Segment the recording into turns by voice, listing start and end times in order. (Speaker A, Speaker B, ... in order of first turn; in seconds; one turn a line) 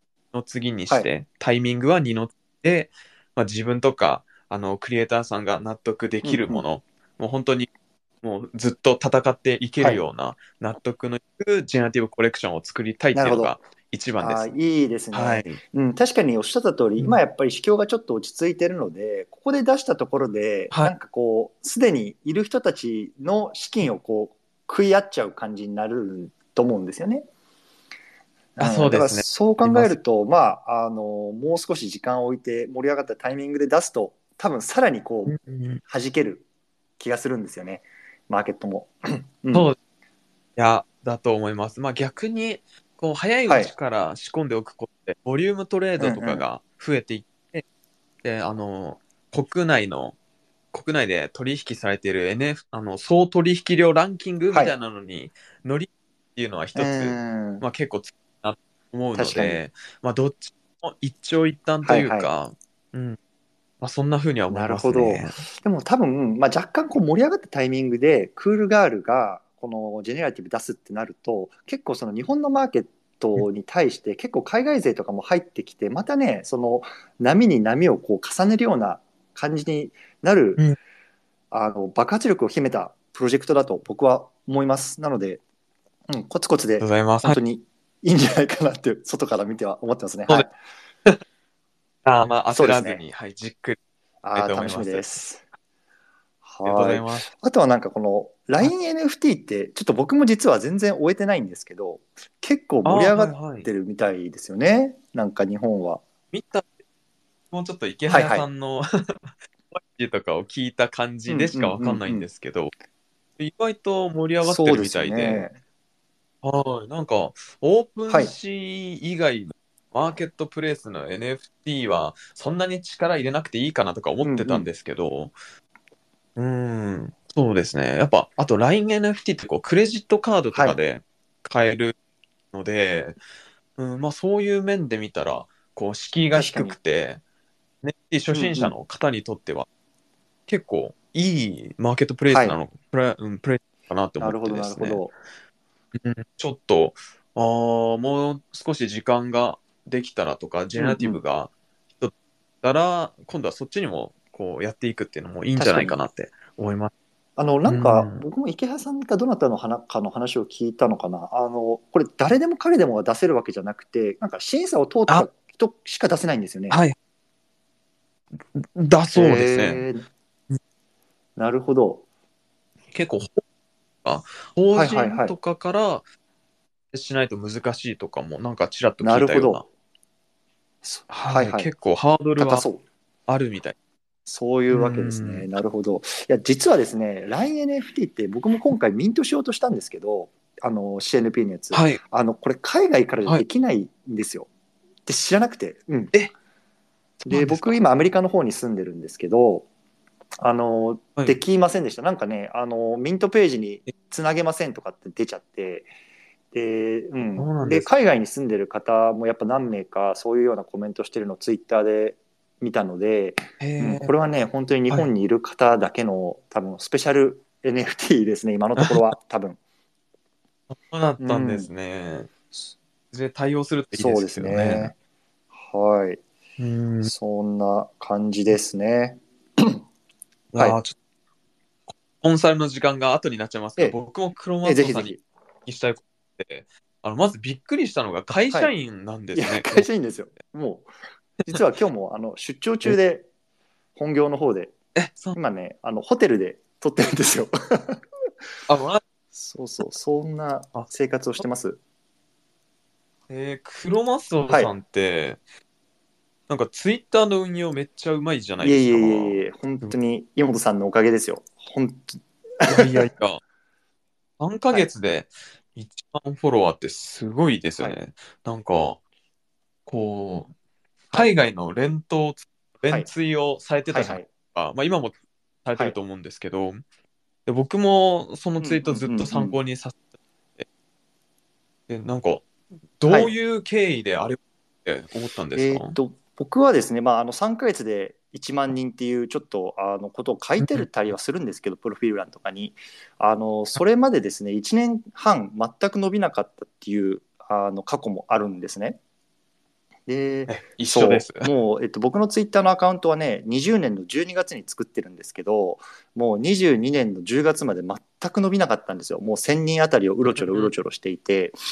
Speaker A: 0.3-7.7
Speaker B: 6.2-6.6
Speaker A: 8.2-14.5
Speaker B: 13.1-13.5
Speaker B: 14.2-27.2
Speaker A: 15.1-15.6
Speaker B: 28.6-36.4
Speaker A: 28.6-30.0
Speaker A: 35.2-35.8
Speaker B: 37.0-39.7
Speaker A: 40.5-47.6
Speaker B: 46.0-46.4
Speaker A: 48.2-50.1
Speaker A: 50.7-63.2
Speaker B: 56.8-57.6
Speaker B: 59.1-59.6
Speaker B: 61.8-62.3
Speaker A: 63.8-65.4
Speaker B: 64.5-80.6
Speaker B: 81.5-85.4
Speaker B: 86.1-90.5
Speaker A: 86.8-87.4
Speaker A: 92.0-93.8
Speaker B: 92.5-93.0
Speaker B: 94.2-95.4
Speaker A: 94.3-95.0
Speaker B: 96.4-106.0
Speaker A: 96.6-97.3
Speaker A: 102.8-103.7
Speaker A: 106.3-106.7
Speaker A: 107.5-112.7
Speaker B: 108.1-108.5
Speaker B: 111.3-112.2
Speaker A: 113.4-115.5
Speaker B: 114.4-115.5
Speaker A: 116.4-125.3
Speaker B: 124.2-124.7
Speaker A: 126.3-131.9
Speaker A: 132.5-133.2
Speaker A: 133.8-137.2
Speaker B: 136.3-136.8
Speaker A: 137.8-139.7
Speaker B: 138.3-138.7
Speaker A: 140.5-145.0
Speaker B: 142.3-142.6
Speaker B: 144.2-145.1
Speaker A: 145.9-156.9
Speaker B: 150.8-151.2
Speaker B: 155.6-156.0
Speaker B: 157.4-166.8
Speaker A: 157.7-158.2
Speaker A: 166.7-166.9
Speaker A: 168.5-169.8
Speaker B: 169.1-170.0
Speaker B: 171.3-172.0
Speaker A: 172.9-173.4
Speaker A: 174.0-176.1
Speaker B: 174.7-175.3
Speaker A: 176.9-179.6
Speaker B: 179.0-179.6
Speaker B: 180.8-181.7
Speaker A: 181.1-182.7
Speaker B: 182.4-182.8
Speaker A: 183.3-183.8
Speaker B: 184.3-194.5
Speaker A: 184.7-185.5
Speaker A: 191.7-192.0
Speaker B: 195.1-196.1
Speaker A: 197.2-197.8
Speaker B: 197.3-199.7
Speaker B: 200.4-205.9
Speaker B: 206.5-219.6
Speaker A: 207.3-207.9
Speaker A: 213.6-214.1
Speaker A: 220.7-222.3
Speaker B: 221.2-221.7
Speaker A: 223.1-224.9
Speaker B: 223.9-224.9
Speaker B: 225.5-226.2
Speaker A: 226.6-227.1
Speaker B: 227.0-229.8
Speaker A: 230.5-230.9
Speaker A: 231.9-235.1
Speaker B: 234.6-235.2
Speaker A: 235.7-239.9
Speaker B: 239.3-240.9
Speaker B: 241.5-243.3
Speaker B: 243.9-244.7
Speaker A: 244.9-245.4
Speaker B: 245.3-248.0
Speaker A: 248.7-249.0
Speaker B: 249.3-251.8
Speaker A: 253.3-255.4
Speaker A: 256.5-259.9
Speaker B: 258.6-263.0
Speaker A: 262.6-263.4
Speaker A: 264.4-269.0
Speaker A: 269.9-270.5
Speaker A: 271.1-276.8
Speaker B: 273.9-274.3
Speaker A: 277.4-280.1
Speaker B: 278.6-279.6
Speaker A: 281.9-282.5
Speaker A: 283.0-286.0
Speaker B: 283.1-283.3
Speaker B: 285.5-299.0
Speaker A: 290.6-290.9
Speaker B: 300.1-311.6
Speaker A: 300.5-301.5
Speaker A: 310.4-310.7